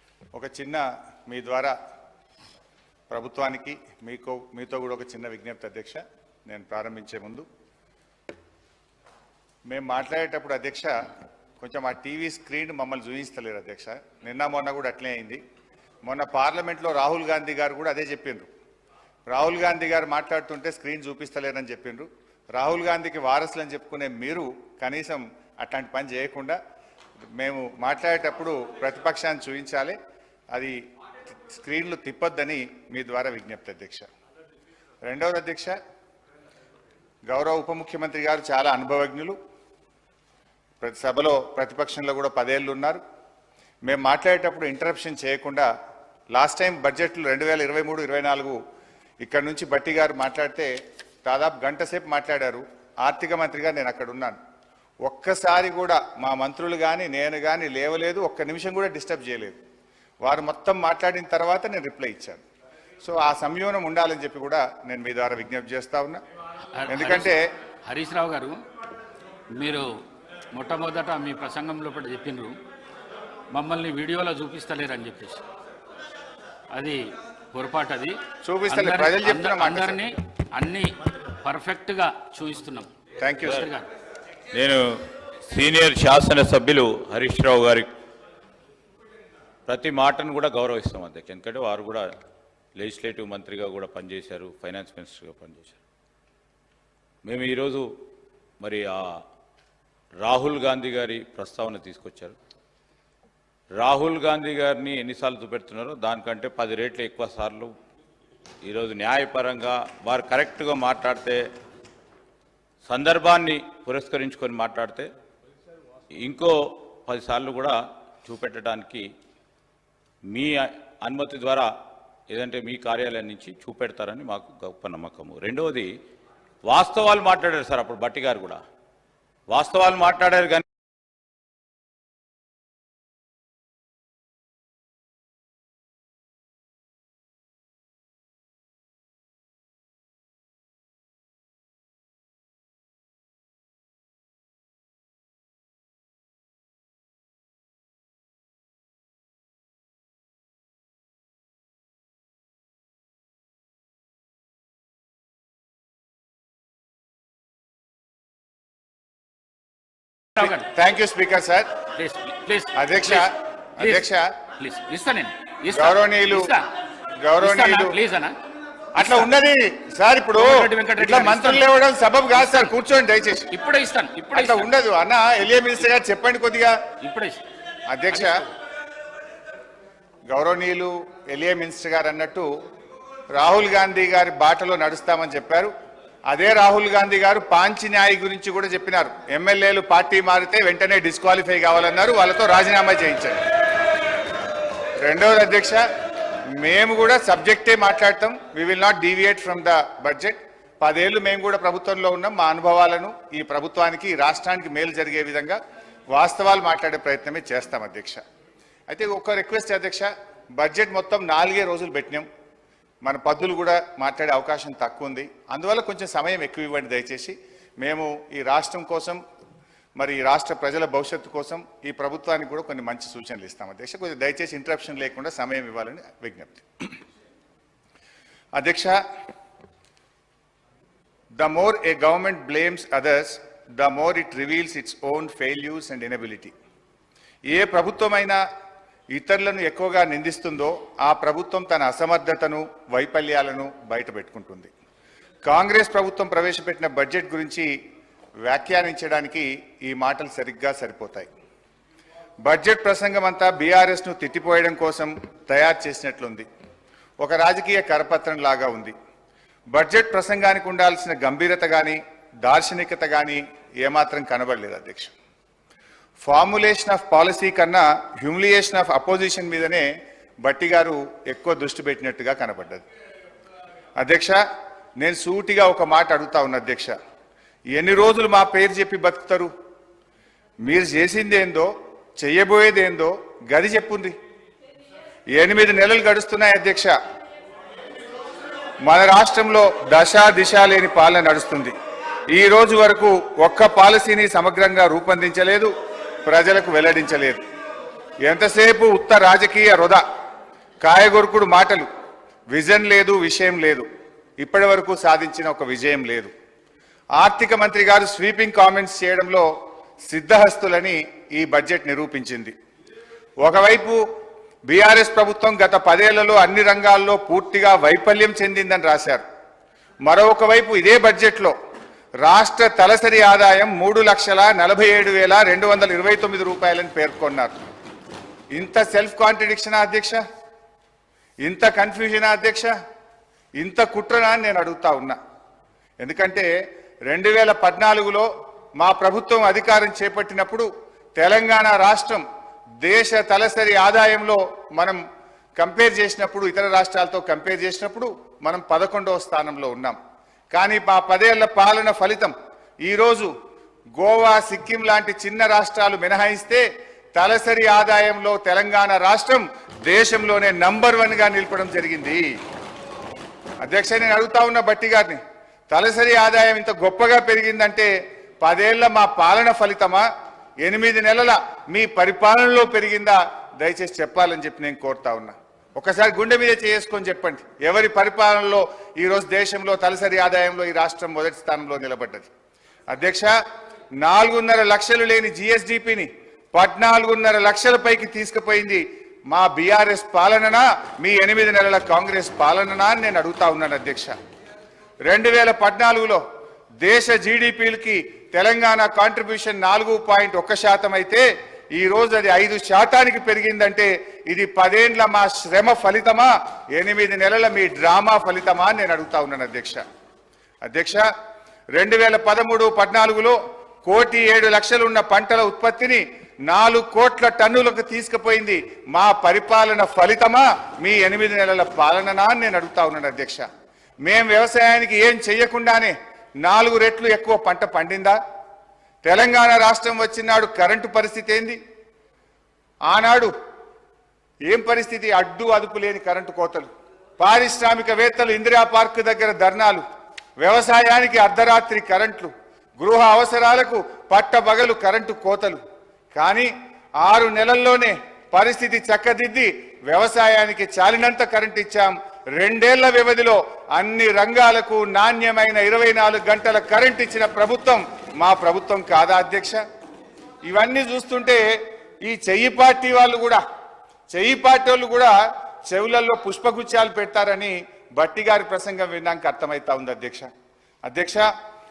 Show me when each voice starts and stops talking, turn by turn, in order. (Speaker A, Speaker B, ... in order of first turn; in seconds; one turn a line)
Speaker A: 0.3-1.7
Speaker A: 3.1-7.5
Speaker A: 9.7-11.0
Speaker A: 11.6-15.4
Speaker A: 16.1-18.5
Speaker A: 19.3-26.6
Speaker A: 27.4-30.0
Speaker A: 30.5-30.8
Speaker A: 31.5-34.1
Speaker A: 35.0-35.8
Speaker A: 37.3-39.4
Speaker A: 40.8-43.0
Speaker A: 43.8-45.7
Speaker A: 46.3-48.6
Speaker A: 49.2-50.7
Speaker A: 51.2-54.4
Speaker A: 55.0-59.6
Speaker A: 60.2-62.4
Speaker A: 63.0-66.2
Speaker B: 66.7-67.3
Speaker A: 66.9-67.5
Speaker B: 67.9-68.6
Speaker B: 69.5-69.9
Speaker B: 70.5-72.5
Speaker B: 73.5-75.4
Speaker B: 76.7-78.2
Speaker A: 78.4-80.1
Speaker B: 78.7-82.9
Speaker A: 83.2-83.7
Speaker B: 83.4-83.9
Speaker C: 84.5-87.9
Speaker C: 89.7-92.0
Speaker C: 92.8-95.8
Speaker C: 97.2-97.9
Speaker C: 98.6-99.2
Speaker C: 100.2-102.3
Speaker C: 103.8-107.7
Speaker C: 108.6-111.4
Speaker C: 112.8-115.1
Speaker C: 116.1-119.1
Speaker C: 120.3-121.7
Speaker C: 122.3-125.9
Speaker C: 126.7-128.6
Speaker C: 129.5-130.7
Speaker B: 160.4-160.7
Speaker A: 160.4-161.7
Speaker B: 162.0-163.3
Speaker A: 162.8-164.3
Speaker B: 164.6-166.7
Speaker A: 165.7-166.5
Speaker A: 167.2-167.9
Speaker B: 167.4-168.4
Speaker A: 168.9-173.5
Speaker B: 169.0-169.3
Speaker B: 170.4-171.6
Speaker B: 172.4-172.7
Speaker B: 173.5-174.7
Speaker A: 174.3-176.8
Speaker B: 177.0-177.4
Speaker A: 177.9-178.4
Speaker B: 178.1-178.5
Speaker A: 180.3-182.5
Speaker A: 183.3-185.7
Speaker A: 186.3-193.4
Speaker A: 195.0-195.8
Speaker A: 196.5-205.6
Speaker A: 206.1-208.2
Speaker A: 208.9-212.3
Speaker A: 213.0-219.2
Speaker A: 220.0-226.9
Speaker A: 228.6-229.0
Speaker A: 231.4-236.5
Speaker A: 237.5-238.4
Speaker A: 239.1-244.7
Speaker A: 245.4-247.7
Speaker A: 248.4-251.3
Speaker A: 252.4-256.5
Speaker A: 257.2-258.9
Speaker A: 259.7-265.1
Speaker A: 266.2-269.9
Speaker A: 270.4-272.8
Speaker A: 274.0-274.4
Speaker A: 275.0-276.9
Speaker A: 277.7-279.5
Speaker A: 280.6-284.1
Speaker A: 285.4-286.9
Speaker A: 288.9-291.7
Speaker A: 292.3-295.7
Speaker A: 296.2-297.4
Speaker A: 298.2-300.0
Speaker A: 300.8-301.9
Speaker A: 302.5-303.9
Speaker A: 304.4-306.3
Speaker A: 307.2-309.5
Speaker A: 310.1-312.5
Speaker A: 313.4-314.0
Speaker A: 314.7-319.2
Speaker A: 320.1-321.5
Speaker A: 322.2-327.6
Speaker A: 328.6-330.2
Speaker A: 331.4-332.7
Speaker A: 333.6-335.2
Speaker A: 336.0-336.5
Speaker A: 337.1-342.2
Speaker A: 342.8-345.0
Speaker A: 345.6-350.0
Speaker A: 350.5-353.3
Speaker A: 354.0-356.6
Speaker A: 357.1-362.3
Speaker A: 363.6-370.1
Speaker A: 370.6-382.3
Speaker A: 382.9-383.3
Speaker A: 384.0-394.1
Speaker A: 395.1-396.2
Speaker A: 396.8-409.8
Speaker A: 410.6-411.1
Speaker A: 411.8-423.4
Speaker A: 424.0-428.2
Speaker A: 429.0-431.6
Speaker A: 432.9-433.3
Speaker A: 434.5-436.7
Speaker A: 437.2-439.8
Speaker A: 440.4-445.6
Speaker A: 446.1-446.5
Speaker A: 447.0-459.6
Speaker A: 460.5-461.4
Speaker A: 462.0-463.4
Speaker A: 464.1-465.1
Speaker A: 465.7-470.3
Speaker A: 470.9-471.3